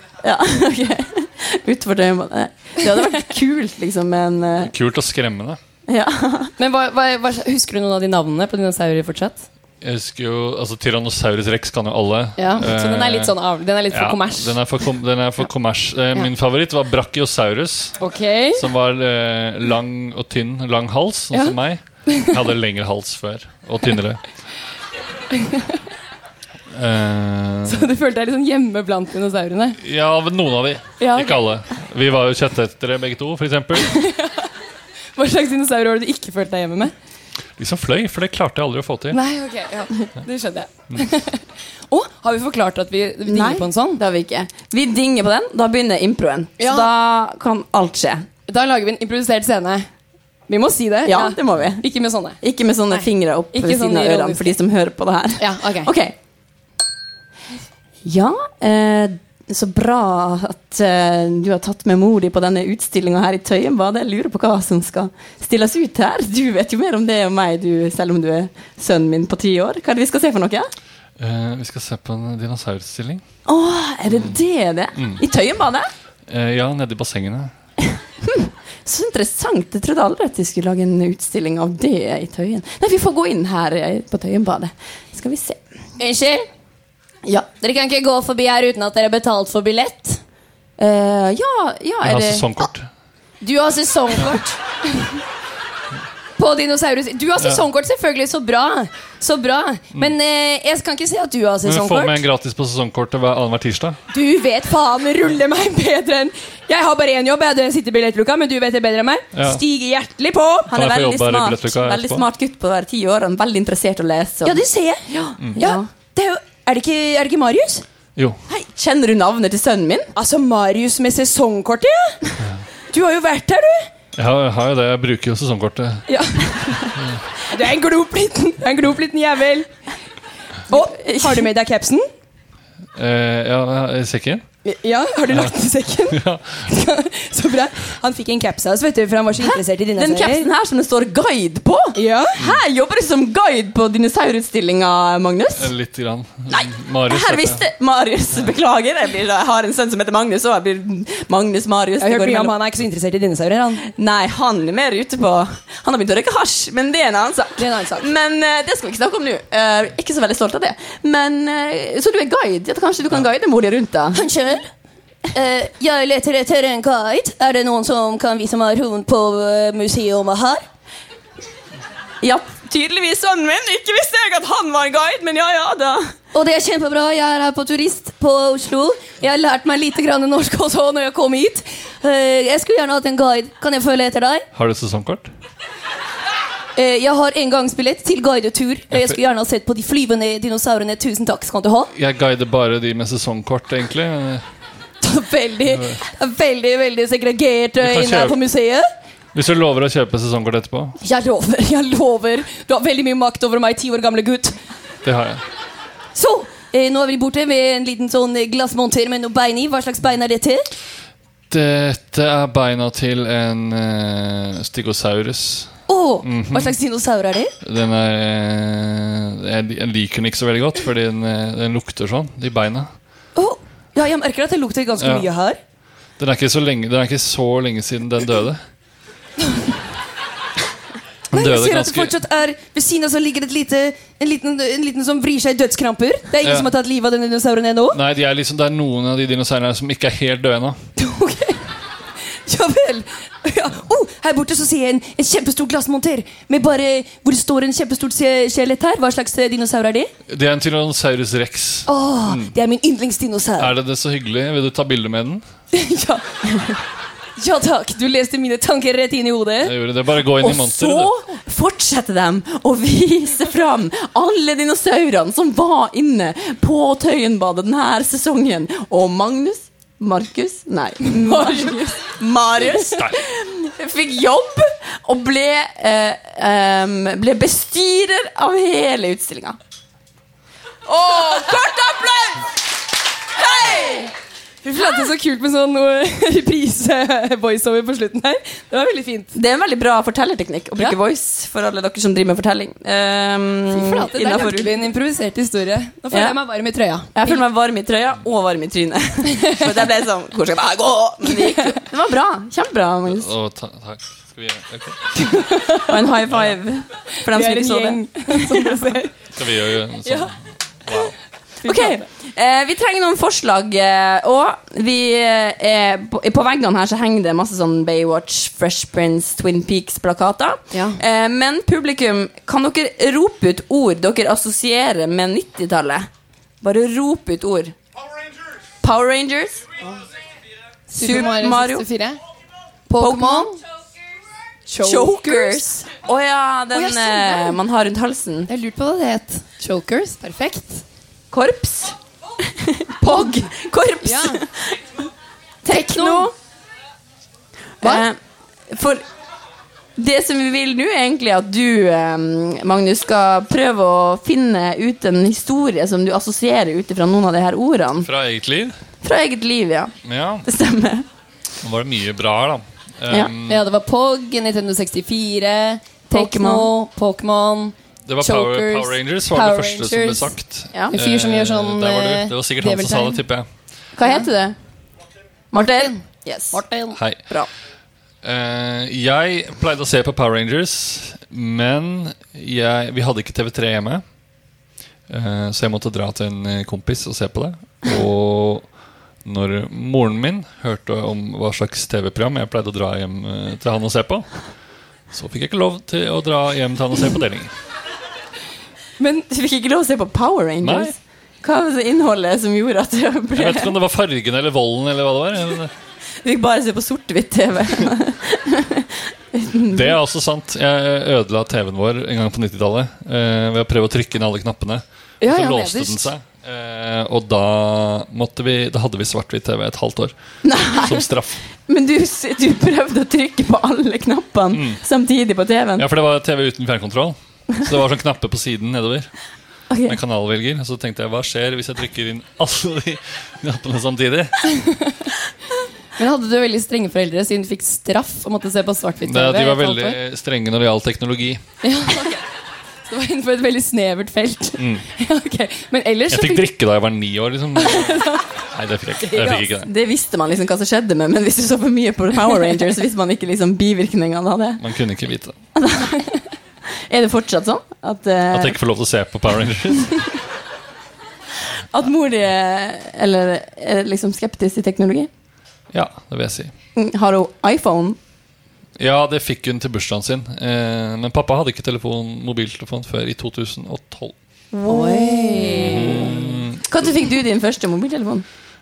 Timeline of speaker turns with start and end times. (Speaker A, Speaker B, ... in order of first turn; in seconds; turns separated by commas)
Speaker A: 0.2-4.7, Speaker B: 4.6-5.6, Speaker A: 5.9-6.5, Speaker C: 6.6-9.5, Speaker B: 9.8-18.0, Speaker C: 12.4-14.6, Speaker C: 18.0-18.6, Speaker B: 18.5-24.2, Speaker C: 21.3-22.4, Speaker C: 25.4-25.8, Speaker B: 26.7-27.9, Speaker C: 27.7-29.8, Speaker B: 29.8-34.1, Speaker C: 31.0-31.4, Speaker C: 33.8-34.5, Speaker C: 35.1-36.9, Speaker B: 37.6-39.2, Speaker C: 39.1-44.0, Speaker A: 43.3-48.3, Speaker C: 46.6-46.9, Speaker C: 48.5-49.9, Speaker C: 50.5-52.4, Speaker A: 51.1-51.9, Speaker A: 52.4-56.1, Speaker C: 52.9-54.6, Speaker C: 55.4-55.9, Speaker A: 58.0-70.7, Speaker B: 71.2-73.2, Speaker A: 73.5-75.9, Speaker B: 75.0-75.2, Speaker B: 76.3-77.5, Speaker A: 78.2-85.6, Speaker C: 86.0-86.5, Speaker C: 87.6-90.2, Speaker A: 90.8-92.5, Speaker B: 92.0-92.9, Speaker C: 93.4-94.5, Speaker A: 94.2-94.5, Speaker C: 96.4-102.2, Speaker B: 97.4-97.6, Speaker B: 101.7-104.0, Speaker C: 104.1-110.7, Speaker B: 109.3-109.6, Speaker A: 110.6-114.6, Speaker B: 110.7-112.2, Speaker C: 114.4-117.8, Speaker A: 118.5-120.1, Speaker C: 120.2-122.2, Speaker C: 122.9-123.9, Speaker B: 124.1-126.1, Speaker C: 126.1-126.9, Speaker C: 127.5-129.7, Speaker C: 130.7-132.0, Speaker A: 130.7-131.5, Speaker B: 133.0-134.4, Speaker C: 134.7-140.5, Speaker B: 136.1-136.6, Speaker A: 139.4-142.0, Speaker C: 141.9-142.4, Speaker B: 142.4-142.6, Speaker A: 142.5-145.7, Speaker B: 145.6-147.6, Speaker A: 146.5-152.6, Speaker C: 152.0-153.9, Speaker A: 153.9-164.2, Speaker C: 157.6-158.1, Speaker C: 164.1-164.7, Speaker C: 165.3-170.6, Speaker A: 172.2-176.1, Speaker C: 176.3-184.5, Speaker B: 184.5-185.3, Speaker C: 186.8-191.9, Speaker B: 188.9-189.2, Speaker B: 191.9-194.4, Speaker C: 195.0-198.9, Speaker B: 195.7-196.0, Speaker B: 197.8-198.4, Speaker B: 199.3-201.0, Speaker C: 201.0-204.6, Speaker B: 205.0-205.4, Speaker C: 206.1-210.7, Speaker B: 211.5-215.7, Speaker C: 215.9-217.5, Speaker B: 216.2-216.8, Speaker B: 217.6-222.9, Speaker C: 223.3-225.6, Speaker B: 225.0-225.3, Speaker B: 226.2-228.6, Speaker B: 231.3-232.2, Speaker C: 231.3-238.0, Speaker B: 236.4-236.7, Speaker B: 237.9-240.8, Speaker C: 241.0-241.7, Speaker C: 242.3-250.1, Speaker B: 250.3-252.5, Speaker C: 251.9-253.7, Speaker B: 253.6-255.4, Speaker C: 255.7-256.2, Speaker C: 257.4-259.8, Speaker B: 259.6-261.1, Speaker A: 260.4-279.6, Speaker B: 272.8-273.2, Speaker A: 280.9-282.5, Speaker A: 283.4-284.1, Speaker C: 284.6-289.3, Speaker A: 289.3-294.9, Speaker C: 293.7-297.4, Speaker A: 296.1-296.4, Speaker A: 297.1-303.3, Speaker C: 301.3-301.7, Speaker B: 303.1-305.4, Speaker C: 305.2-306.0, Speaker A: 305.9-308.9, Speaker C: 307.2-309.2, Speaker B: 309.3-311.1, Speaker C: 310.1-310.3, Speaker C: 311.6-312.1, Speaker A: 311.6-326.1, Speaker C: 320.7-321.0, Speaker A: 326.6-327.8, Speaker A: 328.8-329.6, Speaker C: 330.9-332.2, Speaker A: 331.0-331.9, Speaker C: 332.9-333.5, Speaker A: 333.0-333.5, Speaker C: 334.7-335.6, Speaker A: 334.8-338.5, Speaker C: 336.7-337.6, Speaker C: 338.5-340.8, Speaker A: 341.3-342.0, Speaker A: 342.5-344.9, Speaker C: 343.0-344.4, Speaker A: 345.6-346.3, Speaker C: 345.7-346.3, Speaker A: 347.8-348.2, Speaker A: 348.7-349.0, Speaker A: 350.0-358.1, Speaker B: 358.0-358.8, Speaker A: 359.0-359.9, Speaker B: 360.1-360.5, Speaker A: 360.4-361.1, Speaker B: 361.6-363.7, Speaker C: 363.5-370.3, Speaker A: 366.1-366.7, Speaker B: 368.1-373.5, Speaker C: 370.9-373.2, Speaker A: 374.0-374.6, Speaker A: 375.5-376.6, Speaker C: 375.5-376.0, Speaker C: 376.5-377.0, Speaker B: 376.9-377.2, Speaker B: 378.2-384.0, Speaker B: 385.1-388.7, Speaker B: 389.2-394.3, Speaker B: 395.1-397.5, Speaker A: 399.2-403.7, Speaker B: 400.6-401.0, Speaker B: 403.4-405.7, Speaker A: 406.2-410.0, Speaker B: 409.7-420.1, Speaker C: 415.2-416.1, Speaker A: 420.4-421.1, Speaker B: 420.7-421.4, Speaker A: 421.7-425.9, Speaker B: 424.5-424.8, Speaker B: 425.8-429.1, Speaker A: 429.7-430.0, Speaker B: 429.9-434.5, Speaker C: 434.5-435.1, Speaker C: 436.0-440.0, Speaker B: 439.0-441.4, Speaker C: 441.6-442.2, Speaker C: 442.9-446.5, Speaker B: 444.6-444.9, Speaker B: 446.1-449.7, Speaker C: 447.6-448.3, Speaker C: 449.0-449.5, Speaker A: 449.6-454.6, Speaker B: 454.6-455.4, Speaker A: 455.6-456.0, Speaker A: 456.9-458.6, Speaker B: 458.3-460.1, Speaker A: 461.7-465.1, Speaker B: 465.7-466.5, Speaker A: 466.8-468.0, Speaker B: 468.8-474.1, Speaker A: 474.5-475.9, Speaker C: 474.7-476.2, Speaker B: 475.4-476.9, Speaker A: 476.7-478.2